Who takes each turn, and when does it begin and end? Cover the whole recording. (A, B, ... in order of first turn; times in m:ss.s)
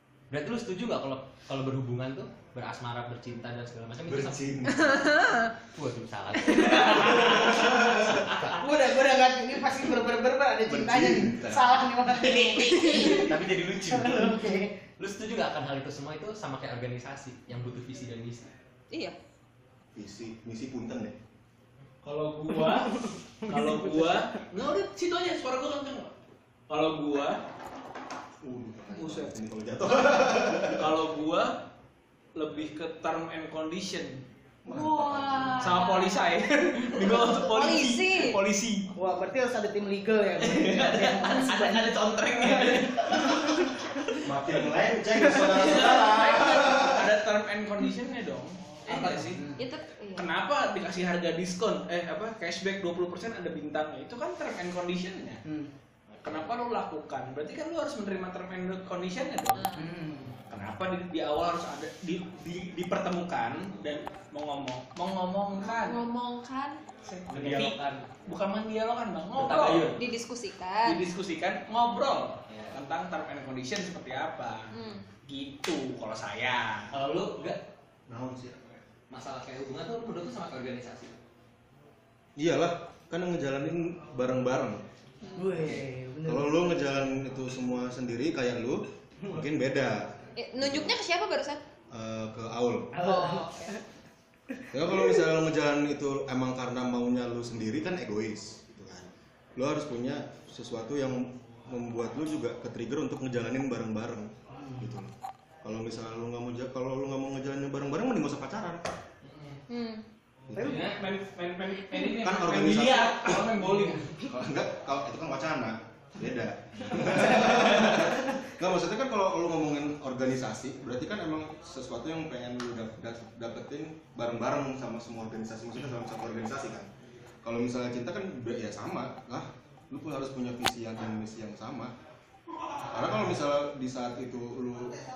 0:00.3-0:04.9 A
0:04.1-0:05.1 B
0:04.8-0:05.5 C
0:05.7-0:08.6 A
0:06.6-0:07.7 D
0:07.0-0:08.2 B
0:08.3-0:14.8 D
0:10.7-0:11.8 B
0:12.2-0:18.5 A
0:12.8-0:13.1 C
0:18.9-0:19.2 C
0:20.0-0:21.2 B
0:22.0-0:26.1 E
0:22.8-0:24.3 D
0:26.7-0:27.4 E
0:28.4-0:30.9 B
0:28.9-0:29.4 E
0:30.6-0:31.6 E
0:32.4-0:34.2 E
0:34.6-0:35.8 B
0:34.7-0:36.3 C
0:35.6-0:38.9 E
0:36.9-0:38.4 C
0:39.0-0:43.7 D
0:40.4-0:43.7 E
0:44.2-0:47.1 B
0:45.3-0:49.4 E
0:48.9-0:49.6 D
0:49.6-0:50.3 C
0:50.2-0:55.4 E
0:55.4-0:55.7 D
0:56.2-0:59.7 E
0:59.5-0:59.9 C
0:59.8-1:00.4 D
1:00.5-1:06.0 E
1:05.6-1:06.8 C
1:07.0-1:10.0 E
1:07.3-1:08.1 A
1:09.4-1:10.0 A
1:09.9-1:11.0 C
1:10.8-1:14.7 E
1:12.5-1:12.8 A
1:14.7-1:15.1 C
1:15.3-1:16.9 E
1:16.9-1:17.6 A
1:18.1-1:18.8 B
1:19.1-1:21.2 A
1:22.4-1:24.8 B
1:25.2-1:25.6 C
1:25.3-1:26.8 D
1:26.2-1:31.0 B
1:30.4-1:31.6 C
1:31.9-1:33.0 B
1:32.9-1:33.8 D
1:33.0-1:33.8 C
1:34.6-1:35.3 D
1:34.7-1:45.1 B
1:44.5-1:44.9 D
1:45.6-1:48.8 B
1:49.2-1:49.6 A
1:49.7-1:50.0 C
1:50.5-1:50.9 B
1:50.6-1:50.9 D
1:50.6-1:54.1 E
1:51.9-1:52.2 C
1:52.2-1:53.5 B
1:54.3-2:06.9 B
1:57.4-1:58.1 D
2:07.4-2:11.9 B
2:12.9-2:15.0 B